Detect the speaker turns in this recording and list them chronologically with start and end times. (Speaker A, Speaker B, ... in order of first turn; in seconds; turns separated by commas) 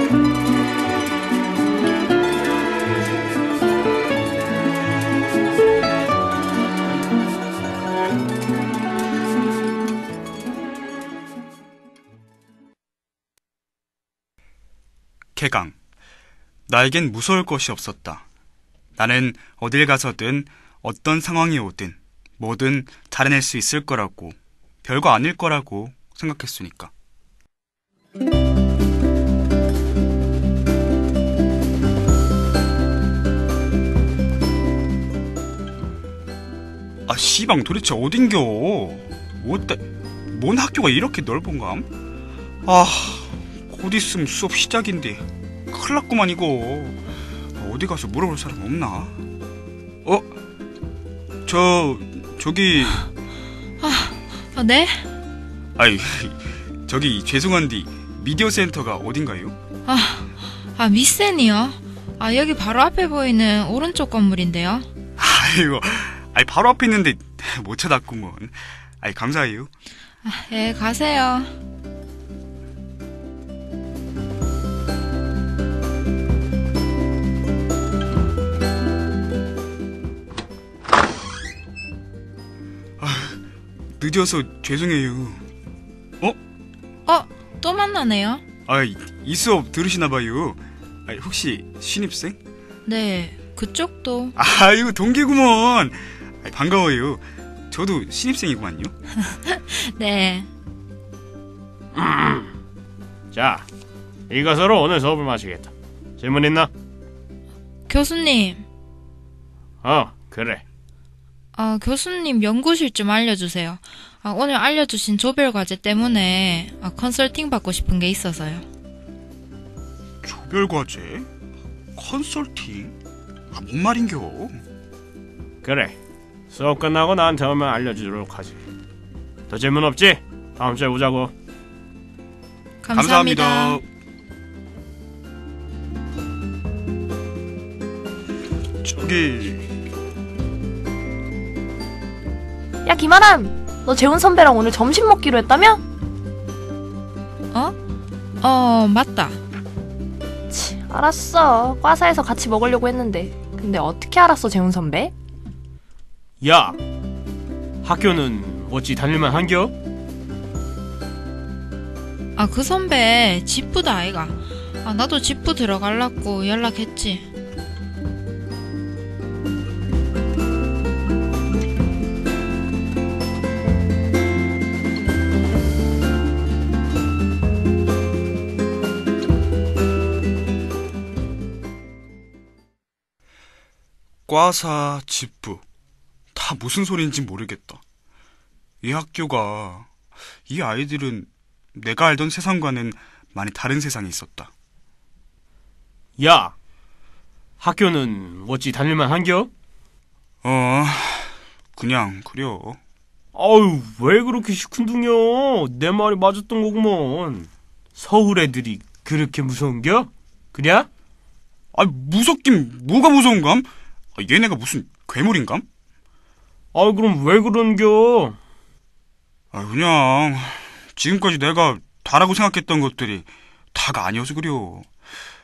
Speaker A: 15.3-15.7, Speaker A: 16.7-18.2, Speaker A: 19.0-26.9, Speaker A: 37.1-41.9, Speaker A: 42.6-47.0, Speaker A: 47.6-49.2, Speaker A: 50.0-50.3, Speaker A: 51.5-53.1, Speaker B: 53.8-55.1, Speaker A: 55.8-59.5, Speaker B: 59.9-64.9, Speaker A: 65.2-69.7, Speaker B: 70.2-71.5, Speaker A: 83.0-83.4, Speaker A: 84.0-85.4, Speaker B: 87.0-88.4, Speaker A: 88.7-92.4, Speaker B: 92.8-94.3, Speaker A: 94.3-98.9, Speaker B: 99.2-100.5, Speaker C: 101.9-102.5, Speaker C: 103.3-103.7, Speaker C: 104.3-106.7, Speaker B: 107.9-108.6, Speaker C: 109.8-110.6, Speaker B: 111.5-118.7, Speaker A: 120.2-121.3, Speaker A: 121.9-122.9, Speaker A: 123.5-124.6, Speaker C: 125.6-125.9, Speaker C: 126.5-128.6, Speaker C: 129.5-131.3, Speaker B: 132.8-133.8, Speaker A: 132.9-133.8, Speaker A: 138.8-139.7, Speaker D: 142.8-145.8, Speaker B: 148.4-149.4, Speaker D: 150.5-155.1, Speaker C: 156.4-156.8, Speaker C: 157.8-159.7, Speaker B: 162.3-167.3, Speaker A: 184.3-185.6, Speaker A: 186.3-187.8, Speaker A: 188.8-189.9, Speaker A: 190.5-194.5, Speaker C: 196.2-196.5, Speaker C: 197.6-199.5, Speaker A: 200.4-202.8, Speaker C: 203.3-210.9, Speaker A: 211.7-215.6, Speaker C: 216.7-218.4, Speaker A: 219.5-224.9